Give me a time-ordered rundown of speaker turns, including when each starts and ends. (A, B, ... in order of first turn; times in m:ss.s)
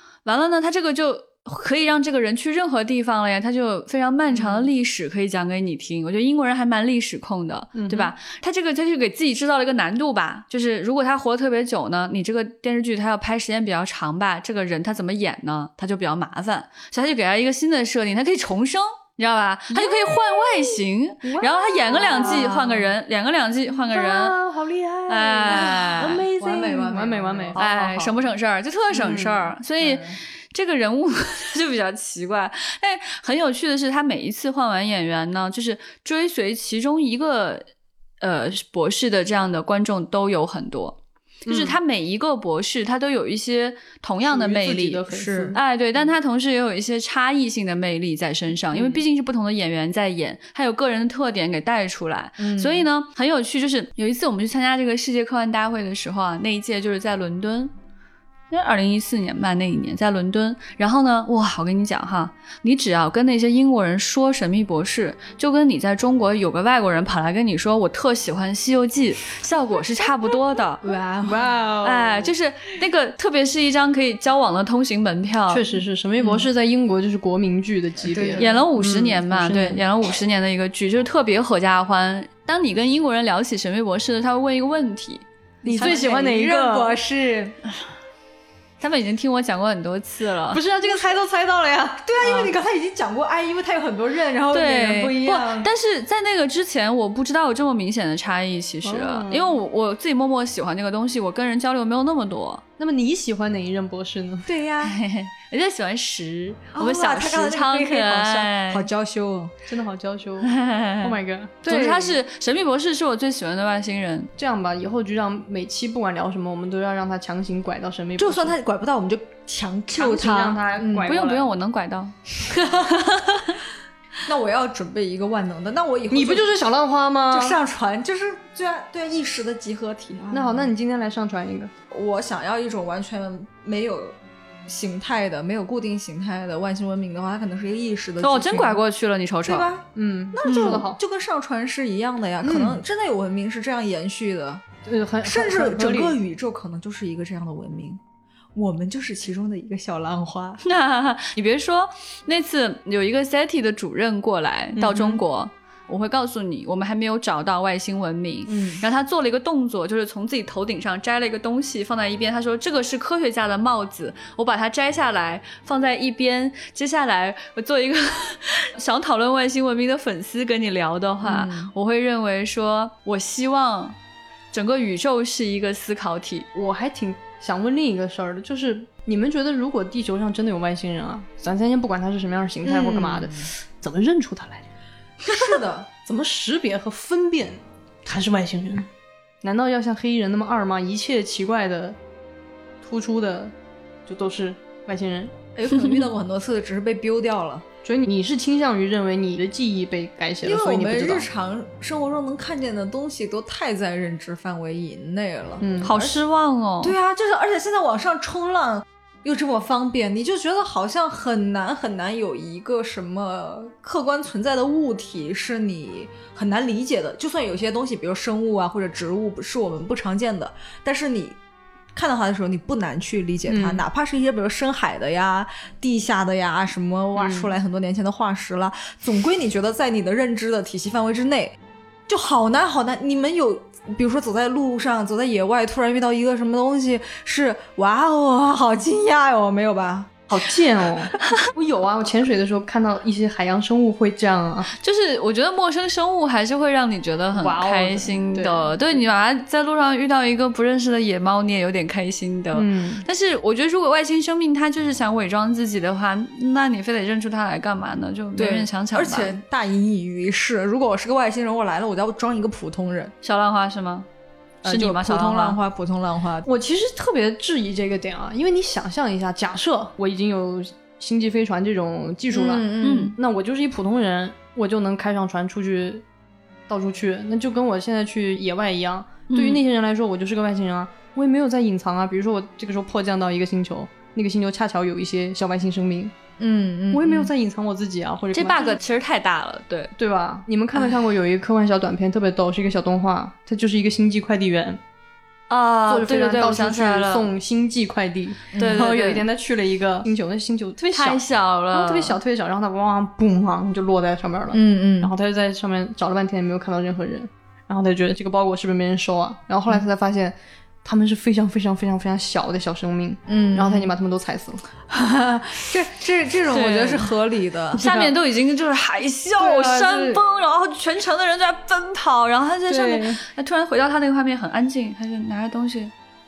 0:00.2-0:24.4 A
0:04.3-0:04.7 B
0:07.7-0:08.1 B
0:21.3-0:22.9 C
0:21.4-0:22.7 B
0:23.9-0:28.2 B
0:25.1-0:26.2 A
0:25.7-0:27.6 C
0:27.6-0:37.6 A
0:28.9-0:29.5 B
0:29.8-0:30.2 C
0:38.2-0:57.7 A
0:41.5-0:41.8 B
0:44.2-0:45.6 B
0:45.1-0:45.6 C
0:48.7-0:49.0 B
0:52.4-0:52.9 C
0:58.5-1:10.8 A
1:10.8-1:12.2 C
1:11.2-1:11.8 B
1:11.8-1:15.6 A
1:15.5-1:18.6 B
1:16.2-1:16.5 C
1:18.1-1:19.2 C
1:18.4-1:25.2 A
1:19.3-1:19.8 B
1:25.6-1:27.0 B
1:25.6-1:27.6 C
1:25.8-1:26.1 A
1:28.8-1:30.6 A
1:30.5-1:31.3 B
1:30.8-1:35.7 C
1:34.5-1:42.6 A
1:38.8-1:39.6 B
1:42.8-1:44.5 B
1:44.5-1:45.0 C
1:44.8-1:48.9 A
1:46.8-1:49.5 C
1:49.7-1:52.2 B
1:50.4-1:54.3 A
1:54.4-1:58.6 B
1:58.2-2:01.1 C
1:59.9-2:01.5 B
2:01.0-2:03.6 A
2:04.3-2:06.5 C
2:06.1-2:07.6 B
2:07.3-2:10.7 C
2:10.3-2:11.7 B
2:11.9-2:18.8 C
2:18.2-2:19.7 A
2:19.5-2:24.6 C
2:20.0-2:21.0 B
2:20.4-2:20.8 A
2:22.4-2:22.8 B
2:24.8-2:26.2 B
2:25.2-2:28.0 C
2:28.6-2:30.6 C
2:30.6-2:54.0 A
2:34.8-2:35.2 C
2:38.5-2:38.8 C
2:51.2-2:51.7 C
2:54.5-2:56.5 A
2:56.5-3:04.7 B
3:02.6-3:03.5 C
3:05.2-3:05.9 C
3:05.3-3:08.9 B
3:09.4-3:12.0 B
3:12.8-3:13.5 B
3:14.1-3:15.4 B
3:15.6-3:17.7 C
3:17.8-3:21.3 B
3:20.4-3:26.2 C
3:25.6-3:25.9 B
3:25.8-3:27.0 A
3:26.8-3:41.4 C
3:41.9-3:51.6 C
3:43.5-3:43.8 B
3:47.2-3:47.5 B
3:52.1-4:00.2 C
4:00.3-4:04.7 B
4:04.8-4:19.4 A
4:07.3-4:09.0 B
4:12.5-4:13.1 B
4:18.4-4:23.1 C
4:23.2-4:24.1 A
4:24.6-4:25.6 A
4:24.6-4:26.5 C
4:26.5-4:36.0 B
4:32.3-4:33.1 C
4:32.8-4:33.2 A
4:36.7-4:46.2 B
4:39.3-4:39.6 A
4:46.4-4:47.3 C
4:46.9-4:48.8 B
4:48.3-4:49.9 A
4:50.0-4:54.8 B
4:55.5-4:57.3 A
4:55.9-5:14.6 B
4:58.5-4:58.9 C
4:58.6-4:59.2 A
5:00.9-5:02.2 A
5:04.5-5:05.1 C
5:13.3-5:13.9 C
5:14.9-5:18.1 C
5:16.5-5:17.1 A
5:17.7-5:25.9 A
5:19.4-5:20.2 C
5:22.7-5:23.2 B